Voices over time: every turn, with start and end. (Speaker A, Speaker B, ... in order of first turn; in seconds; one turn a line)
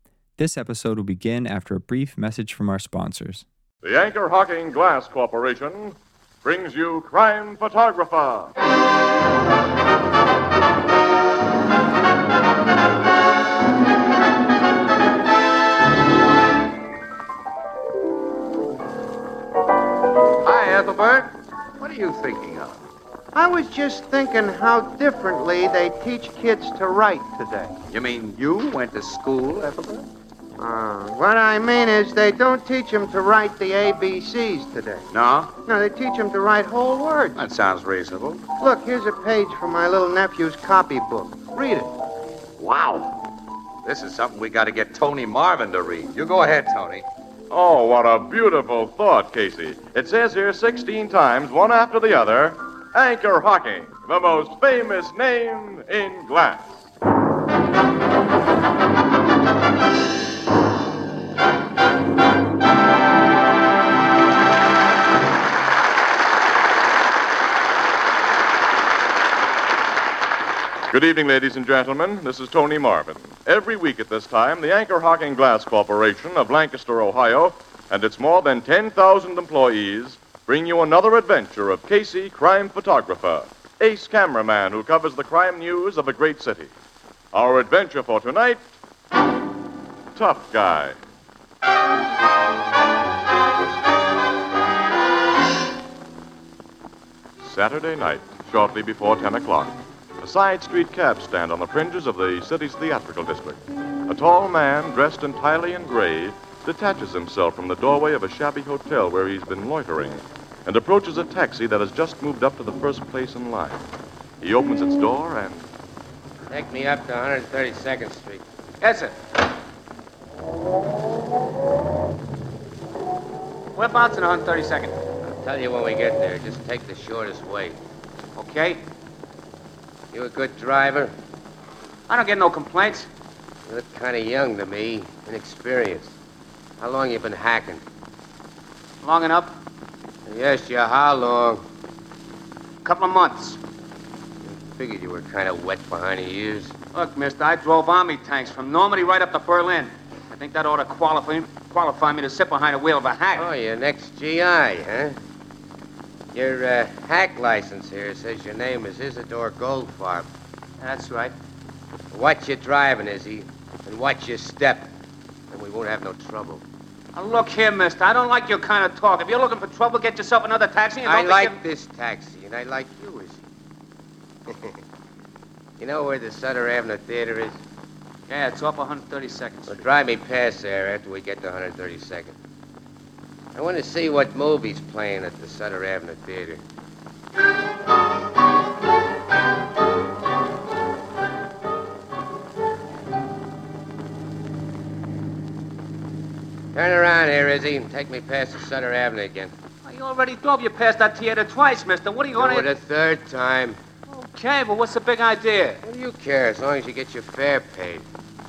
Speaker A: 0.4-3.5
Speaker B: 3.8-8.5
Speaker C: 20.4-22.9
Speaker D: 23.4-27.8
Speaker C: 27.9-30.1
Speaker D: 30.6-35.1
Speaker C: 35.1-35.5
Speaker D: 35.7-37.4
Speaker C: 37.4-38.5
Speaker D: 38.6-41.9
Speaker C: 42.6-43.2
Speaker C: 43.9-47.1
Speaker B: 47.5-56.9
Speaker B: 70.9-86.7
Speaker B: 87.3-88.7
Speaker B: 90.2-91.0
Speaker B: 97.4-113.8
Speaker B: 114.4-115.7
Speaker E: 116.5-118.4
Speaker F: 118.8-119.2
Speaker F: 123.7-125.0
Speaker E: 125.2-127.8
Speaker F: 128.4-128.8
Speaker E: 130.1-131.1
Speaker F: 132.1-133.1
Speaker E: 133.7-136.1
Speaker E: 136.8-137.8
Speaker F: 139.0-139.6
Speaker E: 140.3-141.6
Speaker F: 142.8-143.6
Speaker E: 144.4-146.7
Speaker F: 146.9-153.5
Speaker E: 153.3-155.2
Speaker E: 156.3-160.3
Speaker F: 160.8-161.3
Speaker E: 162.1-164.9
Speaker E: 165.5-166.6
Speaker F: 167.1-171.6
Speaker E: 171.0-173.5
Speaker E: 174.5-174.8
Speaker E: 175.8-177.6
Speaker F: 178.3-179.8
Speaker E: 179.7-182.4
Speaker E: 183.6-186.6
Speaker E: 196.7-199.5
Speaker F: 199.8-202.7
Speaker E: 202.3-203.8
Speaker F: 204.1-205.8
Speaker E: 205.8-208.1